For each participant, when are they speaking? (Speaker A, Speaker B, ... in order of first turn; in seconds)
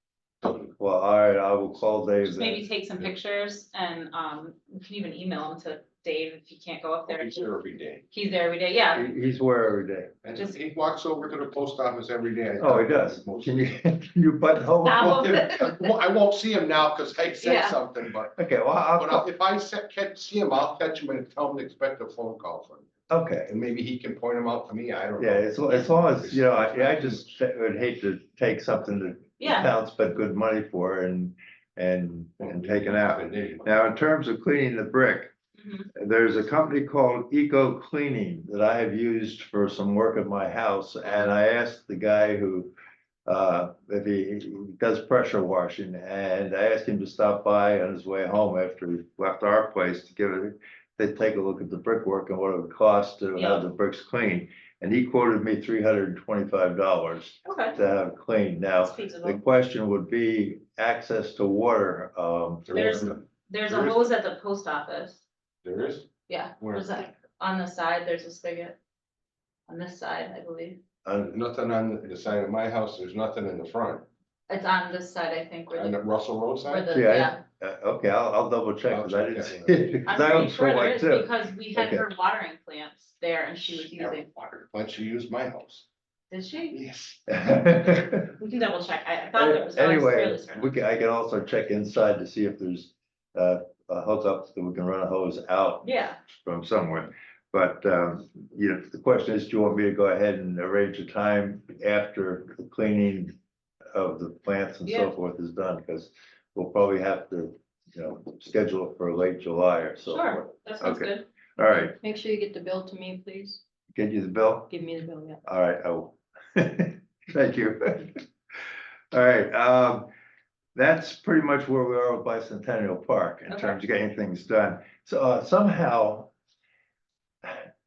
Speaker A: 0.4-0.7, 7.1-8.0, 10.2-13.7, 14.9-18.4, 18.9-22.9, 23.5-27.3, 32.4-33.7, 62.7-64.0, 65.6-66.1, 66.6-67.0, 71.3-74.0, 75.7-76.9, 78.9-80.3, 83.6-85.8, 86.7-87.5
Speaker B: 0.8-2.6, 8.9-10.1, 12.6-15.5, 18.4-19.2, 23.1-23.5, 25.2-35.3, 36.0-42.7, 43.2-63.1, 71.0-71.3, 76.9-82.0, 87.3-88.2, 89.3-103.3, 103.9-112.0, 113.9-114.8, 115.4-118.2, 119.1-120.1, 120.7-126.3
Speaker C: 2.2-7.5, 8.1-9.1, 14.8-15.8, 17.4-17.8, 29.4-29.7, 35.6-35.9, 53.4-53.7, 57.4-57.8, 58.8-59.4, 62.7-65.2, 66.3-68.8, 69.7-70.8, 74.5-76.0, 76.7-77.4, 80.0-84.3, 86.3-86.8, 88.1-90.7, 95.8-96.2, 104.8-105.1, 110.1-111.2, 123.5-123.8
Speaker D: 112.0-113.6, 114.7-115.4